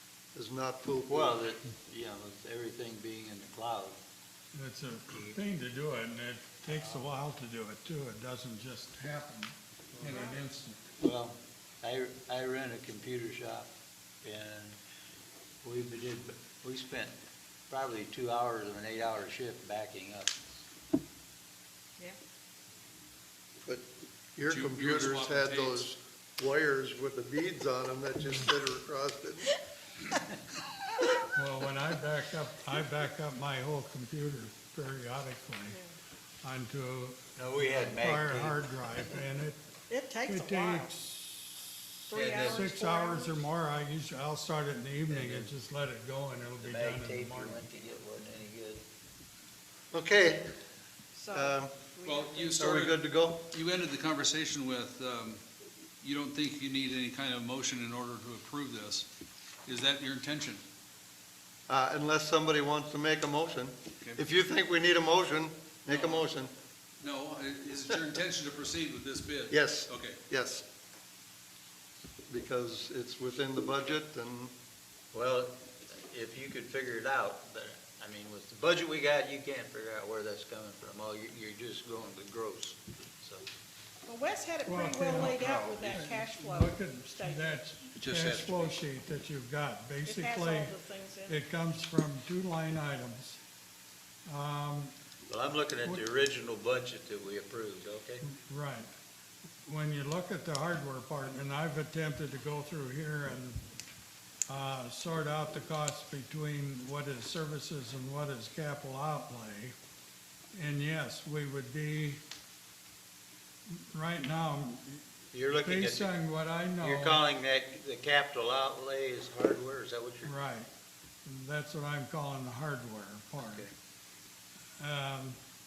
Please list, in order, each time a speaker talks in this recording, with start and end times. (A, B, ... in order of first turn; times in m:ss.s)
0:00.3-0:01.4 A
0:01.1-0:04.0 B
0:04.5-0:10.9 C
0:05.1-0:05.4 B
0:06.7-0:07.1 B
0:10.0-0:10.4 D
0:11.0-0:13.7 B
0:14.2-0:14.8 B
0:15.6-0:17.1 B
0:17.7-0:20.6 B
0:24.4-0:29.6 A
0:24.5-0:25.8 E
0:31.2-0:35.8 C
0:36.4-0:39.6 C
0:37.4-0:38.6 B
0:39.9-0:40.9 D
0:40.2-0:41.8 C
0:42.1-0:43.4 D
0:42.1-0:42.7 B
0:42.3-0:47.6 C
0:45.1-0:45.5 B
0:46.6-0:48.8 B
0:49.9-0:50.5 A
0:51.1-0:52.6 D
0:51.3-0:51.7 A
0:52.0-0:53.0 E
0:52.6-0:53.4 A
0:53.5-0:55.4 E
0:56.0-0:59.1 E
0:59.6-1:00.6 E
1:01.7-1:06.5 A
1:05.9-1:06.2 E
1:07.0-1:10.2 E
1:09.5-1:10.7 A
1:12.3-1:14.5 A
1:15.1-1:23.4 B
1:24.1-1:27.6 D
1:24.7-1:30.7 C
1:28.0-1:28.7 E
1:28.2-1:28.7 B
1:30.0-1:31.4 D
1:31.3-1:33.4 C
1:34.3-1:34.9 C
1:35.3-1:38.2 B
1:38.2-1:38.9 C
1:39.7-1:43.6 C
1:44.5-1:49.8 C
1:50.5-1:52.2 C
1:53.7-1:57.2 C
1:55.3-1:56.1 B
1:56.8-2:00.3 B
2:00.2-2:00.7 C
2:01.2-2:03.7 C
2:03.4-2:03.7 B
2:04.8-2:05.4 C